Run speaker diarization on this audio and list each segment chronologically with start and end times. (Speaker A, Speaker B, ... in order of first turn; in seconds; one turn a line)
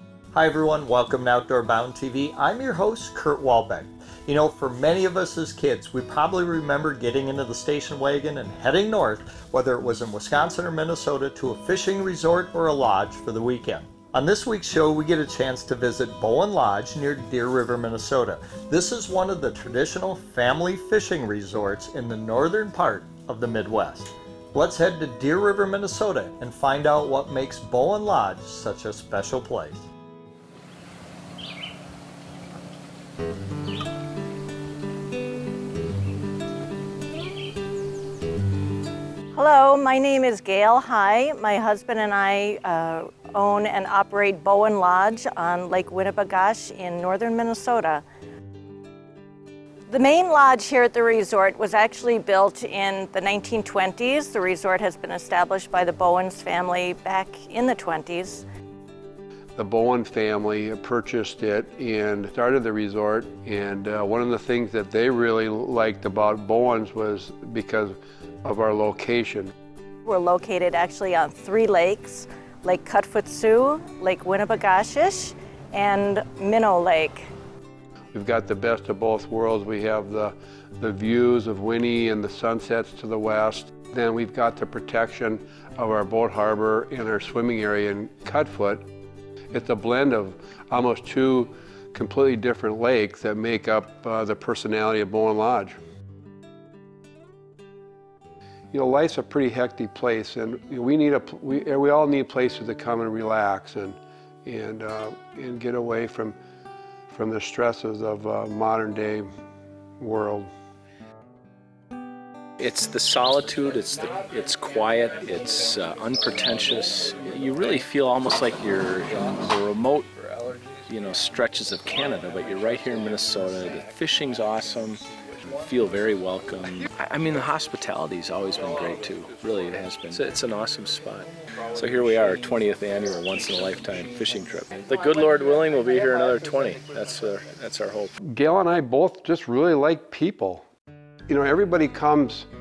Speaker A: 0.3-29.9
Speaker B: 39.3-48.0
Speaker B: 49.9-58.4
Speaker C: 59.5-69.5
Speaker B: 70.0-77.3
Speaker C: 78.1-88.9
Speaker C: 89.5-95.8
Speaker C: 98.7-106.4
Speaker C: 107.1-109.3
Speaker C: 110.0-110.5
Speaker D: 112.6-120.1
Speaker D: 120.9-138.2
Speaker C: 138.2-140.7
Speaker C: 141.3-142.5